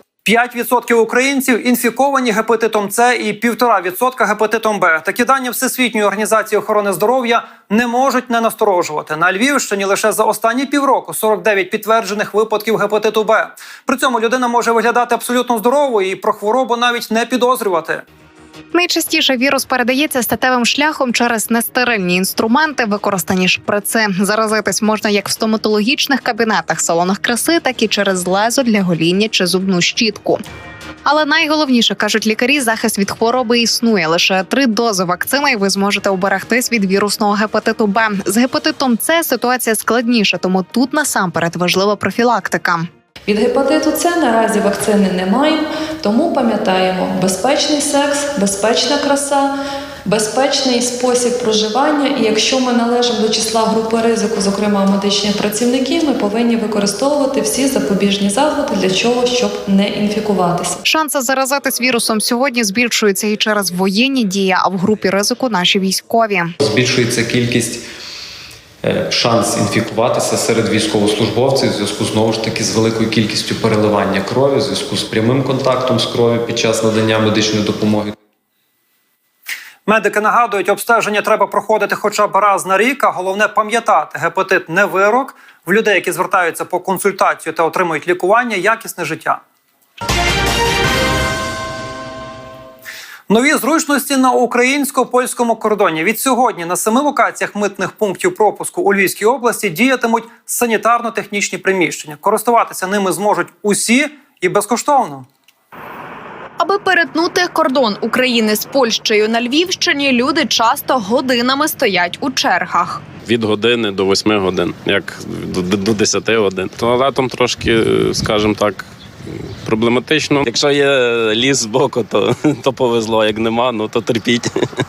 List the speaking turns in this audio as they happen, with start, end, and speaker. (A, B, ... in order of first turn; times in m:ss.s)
0:00.2-0:18.0 A
0:18.7-0:30.4 B
0:31.0-0:42.9 B
0:43.3-0:49.5 C
0:50.0-1:00.8 C
1:00.8-1:06.5 B
1:06.6-1:07.8 D
1:08.8-1:18.1 D
1:19.9-1:29.4 A
1:33.3-1:45.2 A
1:46.6-1:53.0 E
1:53.2-1:58.8 F
1:59.6-2:04.5 F